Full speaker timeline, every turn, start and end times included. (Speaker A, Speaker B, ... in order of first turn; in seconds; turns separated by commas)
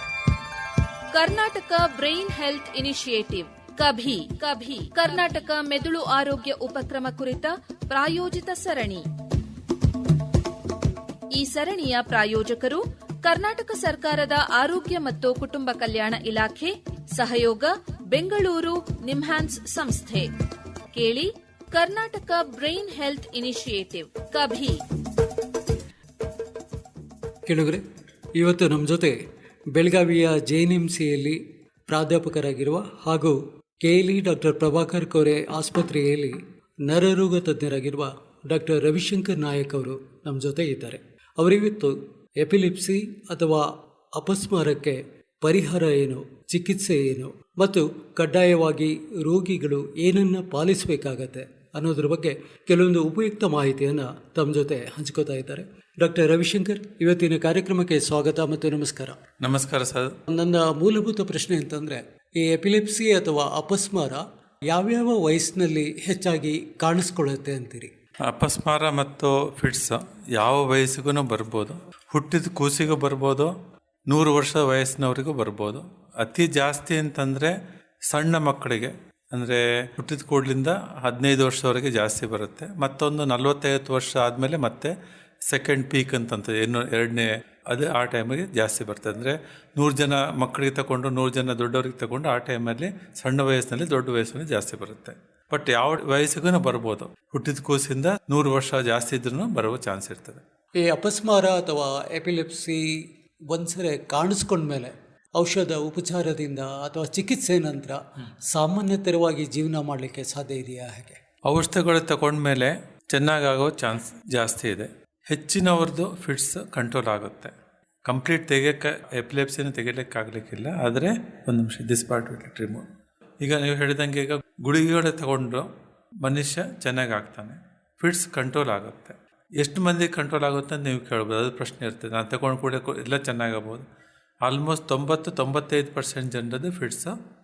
Speaker A: 1.1-9.0, Speaker A: 11.3-20.3, Speaker A: 20.9-24.8, Speaker B: 27.4-27.8, Speaker B: 28.4-29.2, Speaker B: 29.8-59.2, Speaker C: 59.4-60.1, Speaker B: 60.3-67.9, Speaker C: 68.3-73.5, Speaker C: 74.1-77.5, Speaker C: 78.1-100.4, Speaker B: 100.8-111.2, Speaker C: 111.5-117.5, Speaker C: 118.1-122.8, Speaker C: 123.4-125.6, Speaker C: 126.2-133.8, Speaker C: 134.5-137.1